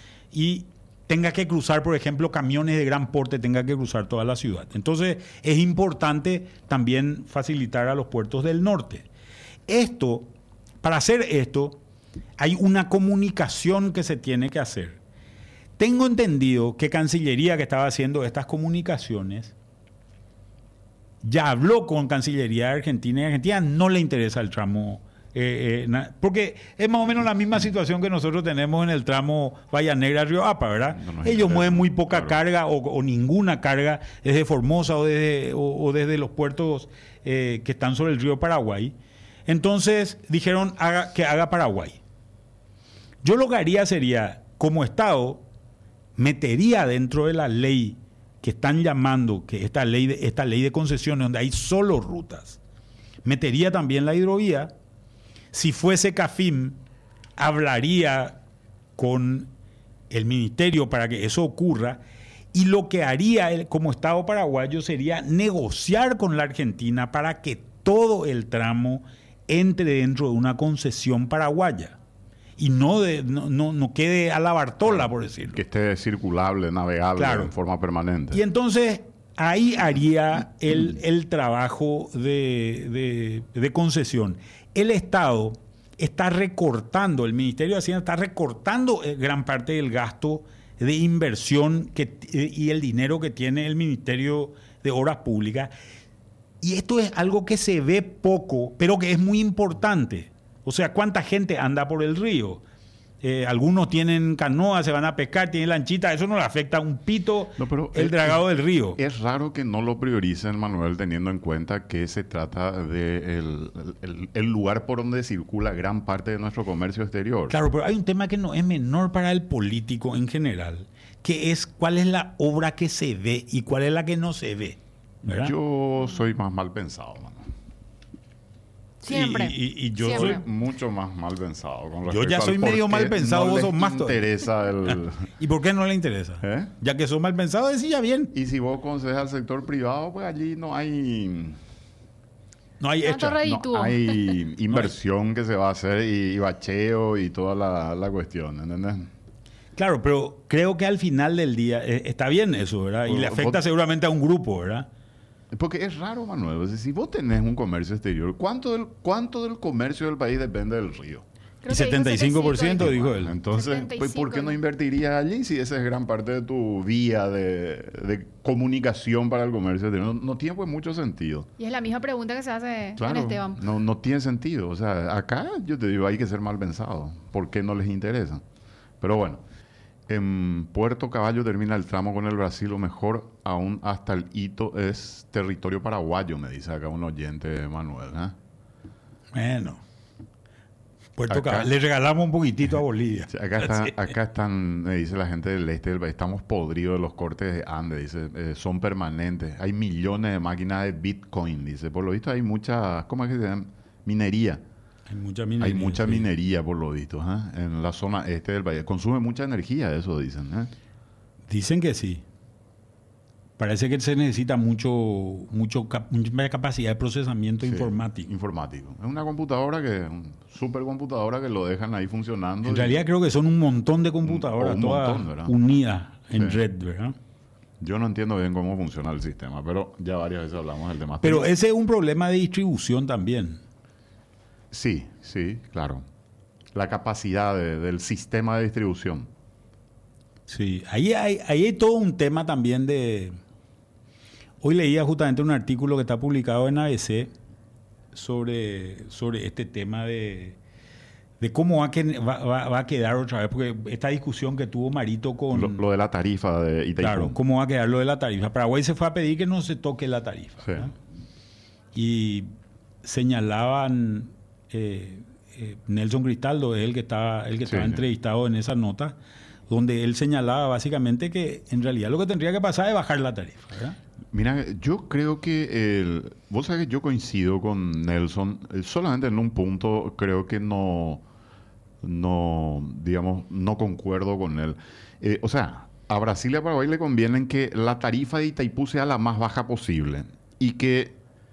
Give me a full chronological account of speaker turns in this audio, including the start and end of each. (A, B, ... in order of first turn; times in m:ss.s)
0:00.3-0:09.1 A
0:09.7-0:10.3 A
0:10.8-0:11.8 A
0:12.4-0:15.0 A
0:15.8-0:19.5 A
0:21.2-0:38.9 A
0:30.9-0:32.4 B
0:39.4-0:42.0 A
0:43.2-0:45.4 A
0:46.2-0:52.6 A
0:53.2-0:54.7 A
0:55.5-0:56.8 A
0:57.4-0:58.4 A
0:59.0-0:59.5 A
1:00.1-1:02.0 A
1:02.5-1:12.0 A
1:12.6-1:15.6 A
1:15.5-1:18.4 B
1:17.2-1:17.5 A
1:18.3-1:35.7 A
1:36.6-1:42.6 A
1:43.2-1:49.0 A
1:47.6-1:48.4 B
1:49.0-1:57.5 B
1:57.5-2:05.5 A
2:05.3-2:07.5 B
2:09.0-2:10.4 C
2:09.1-2:10.4 A
2:10.0-2:15.2 B
2:12.1-2:14.2 A
2:15.4-2:18.3 A
2:16.4-2:16.7 B
2:18.3-2:21.6 B
2:22.8-2:23.4 A
2:23.0-2:24.2 C
2:23.4-2:29.1 B
2:29.8-2:34.9 A
2:33.1-2:33.6 B
2:35.5-2:41.2 B
2:41.6-2:44.6 C
2:41.7-2:43.4 A
2:42.8-2:51.5 B
2:51.6-2:53.6 C
2:53.0-2:58.4 B
2:59.0-2:59.4 B
3:00.1-3:08.4 B
3:09.3-3:09.8 A
3:11.2-3:13.9 A
3:11.3-3:11.7 B
3:13.3-3:24.6 B
3:25.1-3:26.3 A
3:25.6-3:30.7 B
3:31.5-3:32.2 A
3:33.6-3:38.3 A
3:37.6-3:43.0 B
3:42.6-3:47.2 A
3:44.2-3:45.5 B
3:46.3-3:46.6 B
3:47.8-3:51.5 B
3:51.2-3:53.6 A
3:54.7-3:56.0 B
3:56.7-3:59.3 B
4:00.5-4:03.4 A
4:04.6-4:07.3 A
4:08.1-4:10.6 A
4:11.4-4:15.8 A
4:15.5-4:17.4 B
4:17.0-4:20.9 A
4:20.6-4:20.9 B
4:21.9-4:22.5 A
4:23.0-4:29.2 A
4:27.6-4:28.0 B
4:29.7-4:34.0 A
4:34.3-4:41.2 B
4:42.0-4:51.2 B